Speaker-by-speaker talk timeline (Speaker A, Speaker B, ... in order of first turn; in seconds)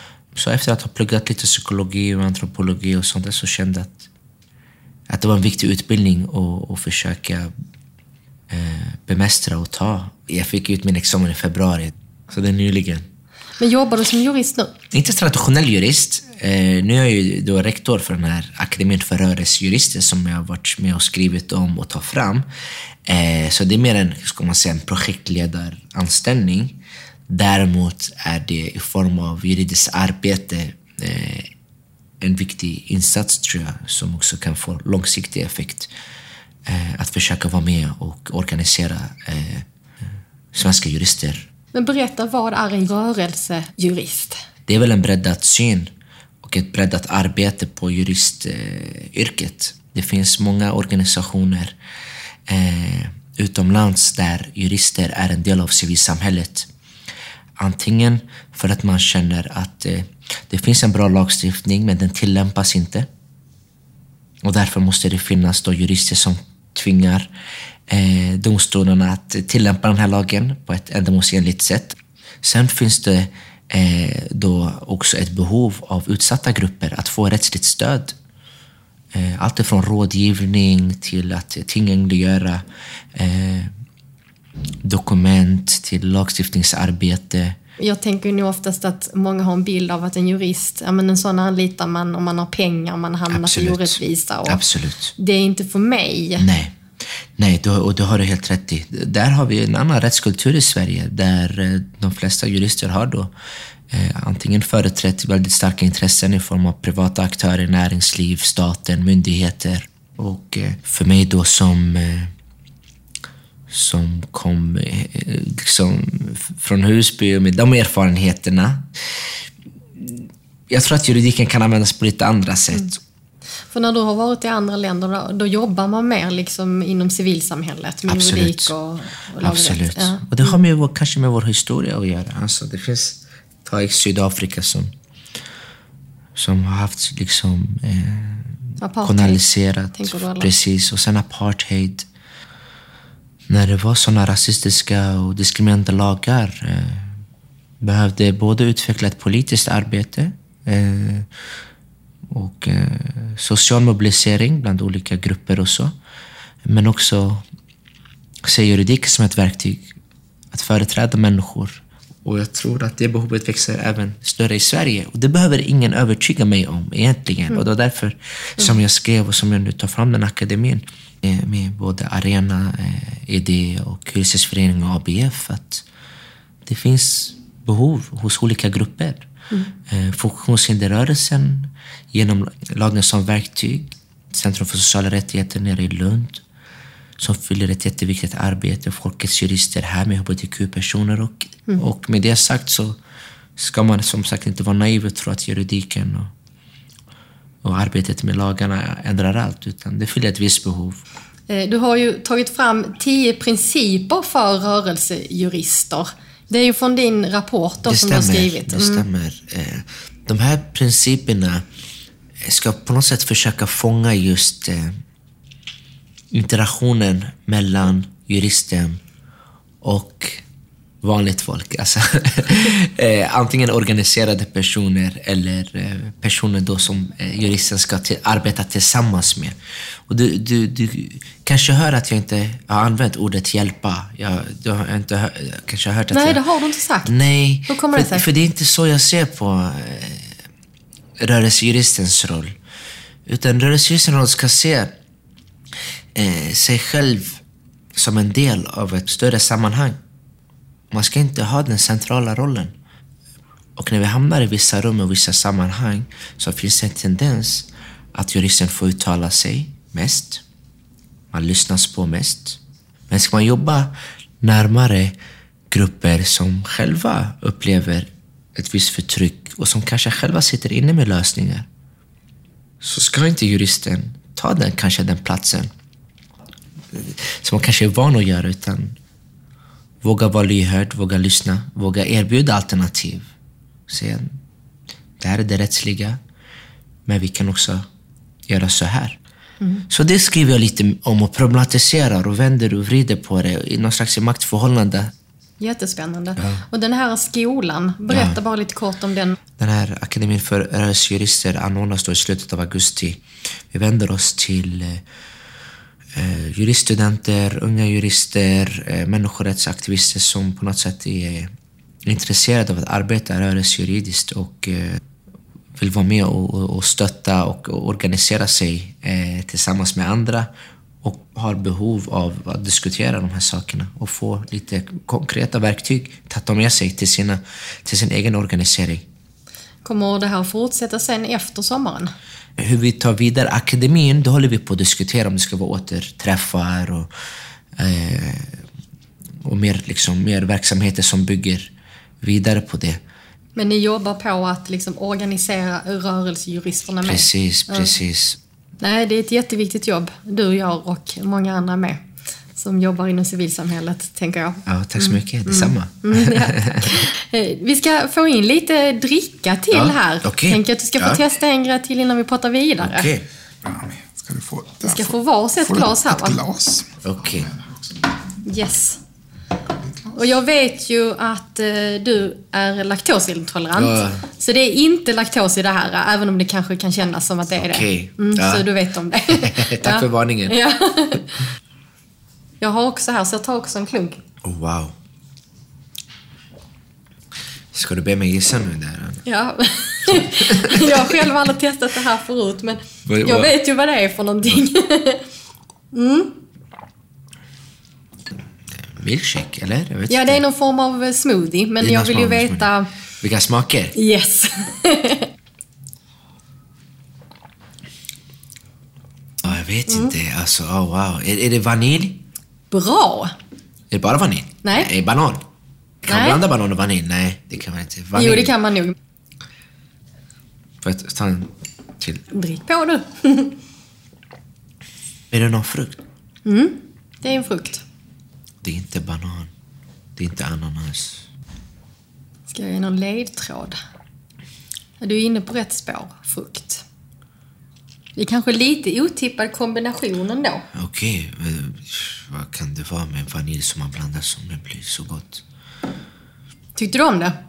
Speaker A: 0.3-4.0, 5.1-7.5, 8.5-13.1, 14.9-22.4, 23.0-31.5, 32.2-35.9, 36.6-39.7, 40.5-41.5, 44.7-51.7, 52.5-56.7, 57.6-63.1, 64.4-67.3, 67.9-78.1, 79.1-82.6, 83.1-83.7, 84.8-87.6, 93.3-95.1, 96.4-96.8, 97.4-103.3, 103.9-112.3, 113.7-118.9, 120.0-123.0, 128.1-128.7, 129.4-134.9, 136.3-142.1, 143.5-147.2, 147.8-151.3, 152.3-155.9, 156.6-157.4, 158.4-159.9, 160.5-175.8, 176.6-179.2, 179.9-186.4, 187.2-193.0, 193.6-196.3, 197.6-201.0, 207.8-211.6, 212.4-215.0, 216.3-219.0, 219.8-220.4, 221.0-229.6, 230.1-236.4, 237.0-240.4, 241.2-242.5, 243.2-244.9, 246.1-247.4, 247.9-250.0, 250.9-252.7, 253.8-260.4, 261.3-265.1, 265.7-271.7, 272.8-275.7, 276.9-278.9, 280.0-283.3, 283.9-284.4, 285.2-286.2, 287.1-287.8, 288.5-289.2, 289.9-295.1, 296.4-296.6, 298.1-298.4, 299.6-305.0, 306.1-311.5, 312.0-315.0, 315.7-320.5, 321.0-329.0, 332.6-337.1, 337.8-338.6, 339.4-343.0, 347.0-348.4, 354.6-357.1, 359.7-361.2, 362.8-363.2, 367.0-367.5, 373.7-374.2, 377.6-378.7, 379.3-380.6, 384.4-384.9, 387.7-389.2, 390.1-391.2, 393.1-393.5, 398.8-400.4, 401.8-403.9, 409.4-412.2, 413.9-415.4, 416.0-418.5, 420.8-422.2, 425.3-426.0, 428.6-429.5, 430.1-431.2, 440.7-445.4
Speaker B: 13.6-14.7, 41.7-44.4, 87.8-94.6, 95.2-96.5, 123.7-130.6, 138.8-139.4, 139.9-140.5, 201.5-209.1, 236.1-237.1, 237.7-238.3, 289.6-289.9, 295.6-299.4, 329.8-332.1, 343.6-347.9, 348.8-352.0, 352.6-363.1, 364.9-366.4, 368.4-369.0, 370.1-381.4, 382.6-384.2, 389.2-395.2, 395.9-396.3, 400.1-402.9, 403.9-405.3, 412.7-413.3, 414.6-414.9, 416.1-416.4, 418.1-418.9, 422.3-423.6, 426.4-427.8, 432.5-433.8, 435.0-436.8, 438.1-440.6, 446.8-447.4
Speaker C: 363.6-368.2, 369.7-370.2